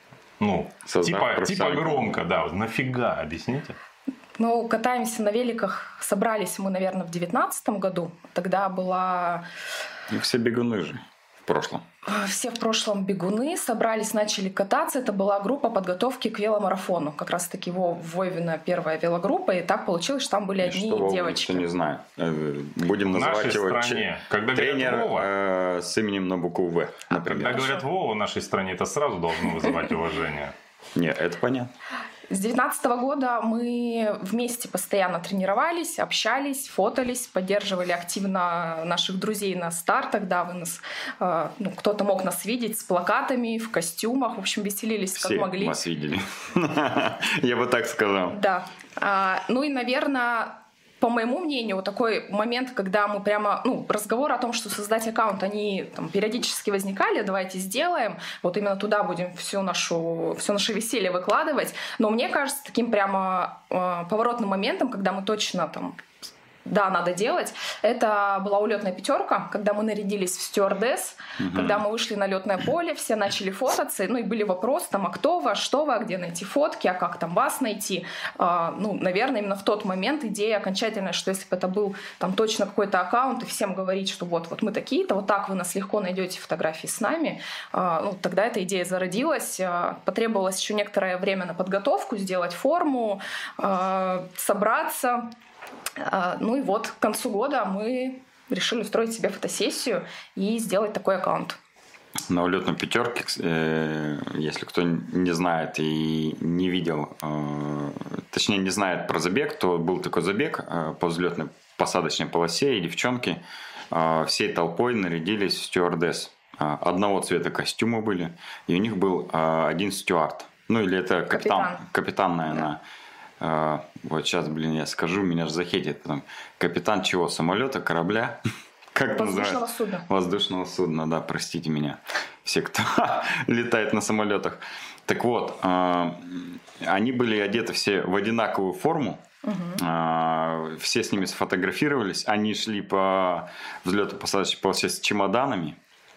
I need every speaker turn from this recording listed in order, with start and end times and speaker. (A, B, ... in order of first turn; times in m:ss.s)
0:00.4-0:03.8 A
0:00.9-0:02.2 B
0:04.4-0:09.4 C
0:10.1-0:11.8 B
0:12.1-0:21.7 C
0:20.6-0:27.8 B
0:23.1-0:25.3 A
0:27.2-0:30.5 A
0:27.4-0:27.8 C
0:31.0-0:31.7 B
0:32.3-0:45.8 C
0:45.2-0:48.4 B
0:48.3-1:06.0 C
1:06.6-1:35.3 C
1:11.4-1:11.8 B
1:36.0-1:41.6 C
1:42.3-2:02.8 B
2:01.3-2:01.8 C
2:03.4-2:08.4 B
2:08.9-2:19.2 B
2:09.1-2:10.1 C
2:19.4-2:19.8 C
2:19.8-2:25.8 B